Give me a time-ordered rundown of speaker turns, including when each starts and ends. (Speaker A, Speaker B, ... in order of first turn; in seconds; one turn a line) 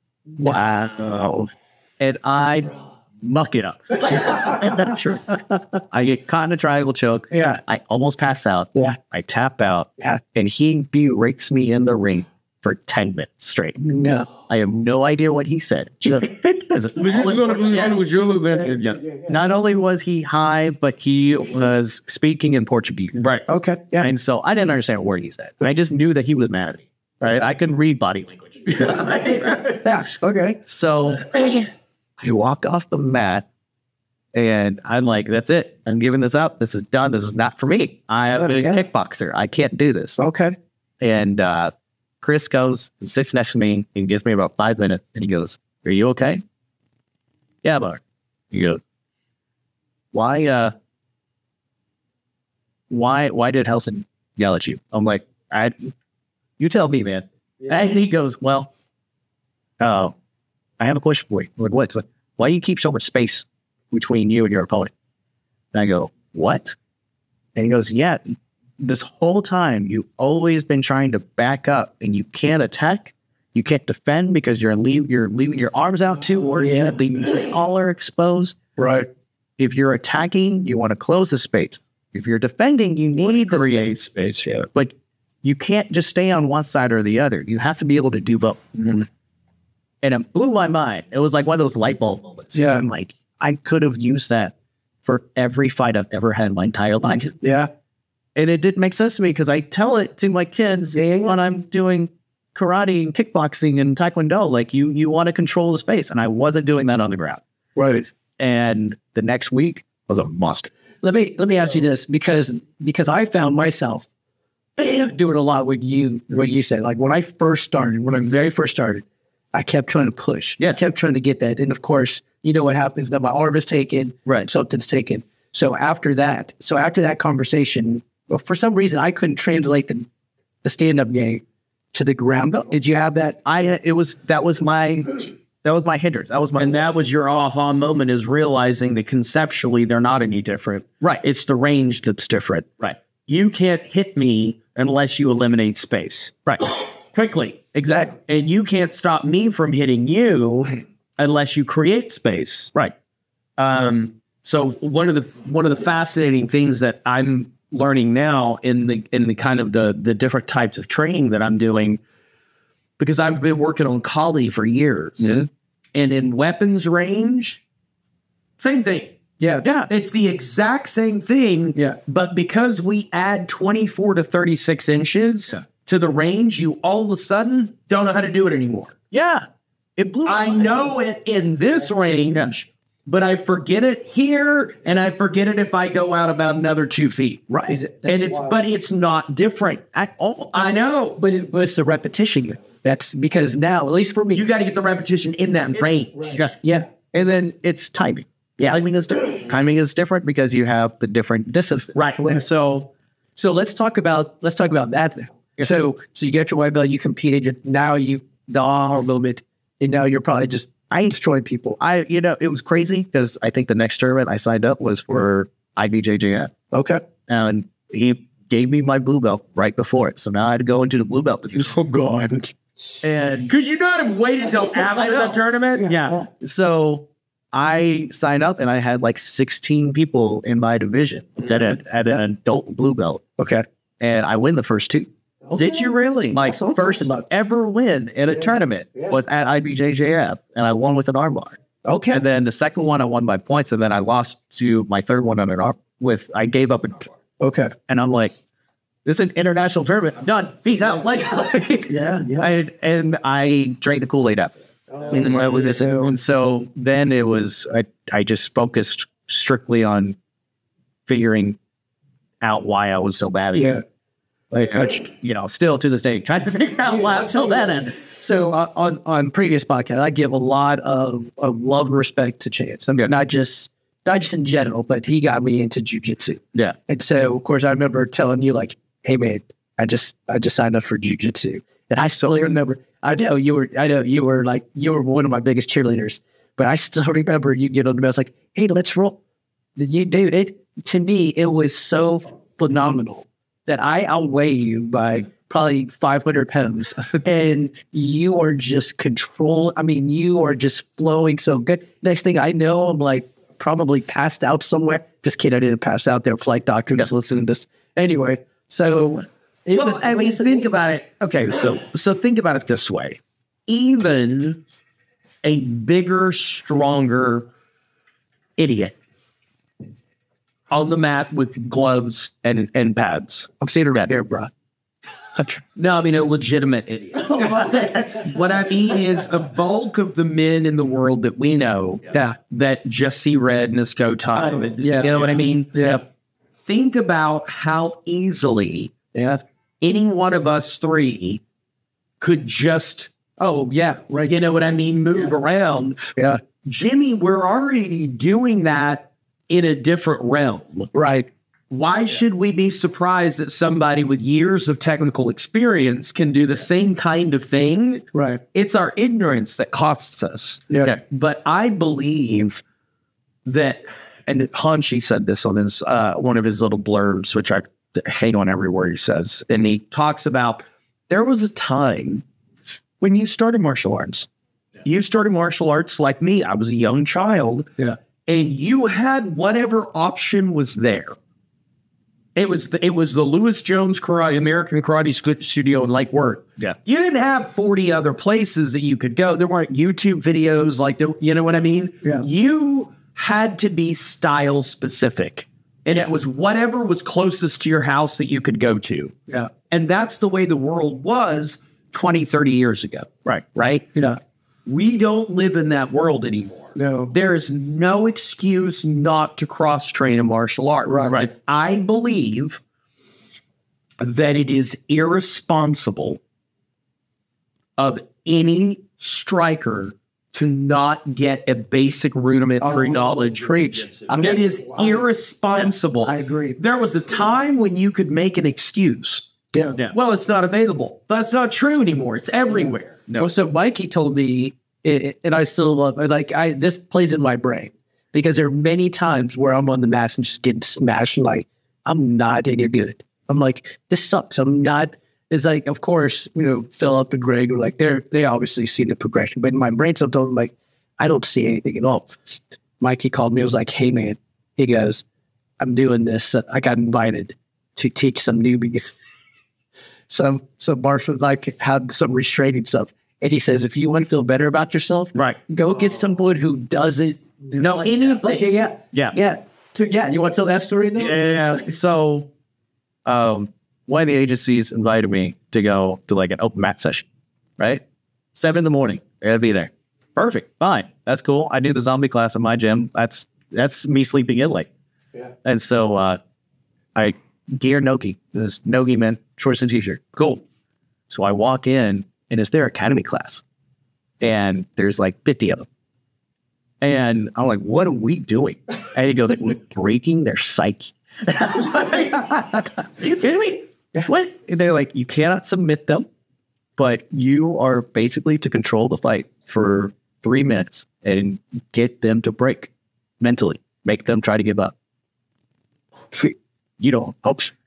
Speaker A: 0.4-18.0
Speaker B: 7.3-7.6
Speaker B: 13.8-14.3
Speaker C: 16.9-19.0
Speaker A: 19.2-23.2
Speaker C: 23.2-23.4
Speaker B: 23.5-24.1
Speaker A: 24.0-29.8
Speaker B: 29.5-30.6
Speaker A: 30.6-31.7
Speaker A: 32.2-33.5
Speaker A: 34.3-40.2
Speaker B: 38.3-38.8
Speaker B: 40.2-40.6
Speaker A: 41.0-46.4
Speaker A: 47.6-48.8
Speaker A: 50.1-50.7
Speaker A: 52.9-55.9
Speaker A: 56.6-58.7
Speaker A: 59.8-60.1
Speaker A: 60.8-64.9
Speaker A: 65.7-66.8
Speaker A: 67.5-78.6
Speaker B: 76.6-77.0
Speaker B: 78.8-79.1
Speaker A: 79.6-89.0
Speaker C: 83.6-83.8
Speaker A: 90.0-97.4
Speaker B: 92.5-92.9
Speaker B: 97.4-97.7
Speaker A: 98.3-107.4
Speaker B: 107.8-108.1
Speaker A: 108.4-110.7
Speaker B: 111.0-114.1
Speaker B: 114.8-130.1
Speaker B: 130.6-133.5
Speaker A: 133.4-136.8
Speaker C: 136.6-152.7
Speaker C: 153.6-162.0
Speaker C: 163.0-165.3
Speaker C: 165.9-167.6
Speaker C: 168.6-169.1
Speaker B: 169.4-169.6
Speaker A: 169.6-169.9
Speaker C: 169.9-179.0
Speaker A: 179.1-179.4
Speaker A: 180.0-180.7
Speaker C: 180.2-192.6
Speaker B: 187.7-188.5
Speaker B: 192.8-194.4
Speaker C: 194.3-196.6
Speaker B: 196.6-197.4
Speaker A: 197.1-202.0
Speaker C: 198.6-199.1
Speaker C: 201.9-202.9
Speaker B: 203.3-211.8
Speaker A: 211.8-216.5
Speaker B: 216.7-217.0
Speaker A: 217.3-222.0
Speaker B: 221.9-222.5
Speaker A: 223.0-223.5
Speaker C: 223.5-226.1
Speaker A: 225.9-233.3
Speaker B: 233.4-233.7
Speaker A: 234.0-235.1
Speaker B: 235.5-237.2
Speaker C: 235.6-236.3
Speaker A: 236.3-241.6
Speaker B: 241.8-242.2
Speaker A: 242.1-247.1
Speaker B: 247.4-247.7
Speaker A: 247.9-248.3
Speaker A: 249.0-260.2
Speaker B: 251.9-252.5
Speaker B: 254.9-256.1
Speaker C: 255.1-255.8
Speaker A: 261.1-261.6
Speaker A: 262.4-263.8
Speaker B: 263.5-263.8
Speaker A: 264.5-267.9
Speaker B: 268.0-289.2
Speaker B: 289.8-310.6
Speaker C: 309.7-314.6
Speaker C: 315.4-317.5
Speaker C: 318.6-318.9
Speaker C: 320.7-322.4
Speaker A: 322.4-323.6
Speaker B: 323.6-324.5
Speaker C: 325.7-335.9
Speaker B: 332.1-332.4
Speaker B: 334.7-335.2
Speaker B: 335.7-336.0
Speaker C: 336.6-338.9
Speaker B: 339.1-339.4
Speaker C: 339.8-341.4
Speaker C: 342.2-343.4
Speaker B: 343.7-344.3
Speaker C: 344.2-350.9
Speaker B: 346.1-346.4
Speaker B: 350.9-351.3
Speaker C: 351.7-362.6
Speaker B: 358.1-358.4
Speaker B: 360.7-360.9
Speaker C: 363.4-372.2
Speaker A: 368.7-369.3
Speaker C: 373.0-374.2
Speaker C: 374.8-377.7
Speaker C: 378.3-381.1
Speaker C: 382.4-399.1
Speaker C: 399.7-403.9
Speaker B: 403.9-404.2
Speaker C: 404.6-412.6
Speaker B: 406.7-407.1
Speaker B: 410.9-411.2
Speaker C: 414.0-416.2
Speaker C: 417.8-423.5
Speaker B: 422.6-424.2
Speaker C: 424.1-429.3
Speaker B: 426.0-426.6
Speaker B: 429.5-429.8
Speaker C: 429.8-433.1
Speaker B: 433.2-455.0
Speaker B: 455.6-458.9
Speaker B: 460.1-468.4
Speaker C: 467.6-468.9
Speaker A: 468.9-469.2
Speaker B: 469.1-471.6
Speaker A: 471.0-472.3
Speaker A: 473.1-477.1
Speaker A: 477.6-477.8
Speaker A: 478.3-484.7
Speaker A: 485.4-486.2
Speaker A: 486.9-490.4
Speaker A: 491.1-493.4
Speaker A: 494.2-495.7
Speaker A: 496.8-506.1
Speaker A: 506.8-514.7
Speaker A: 516.2-517.5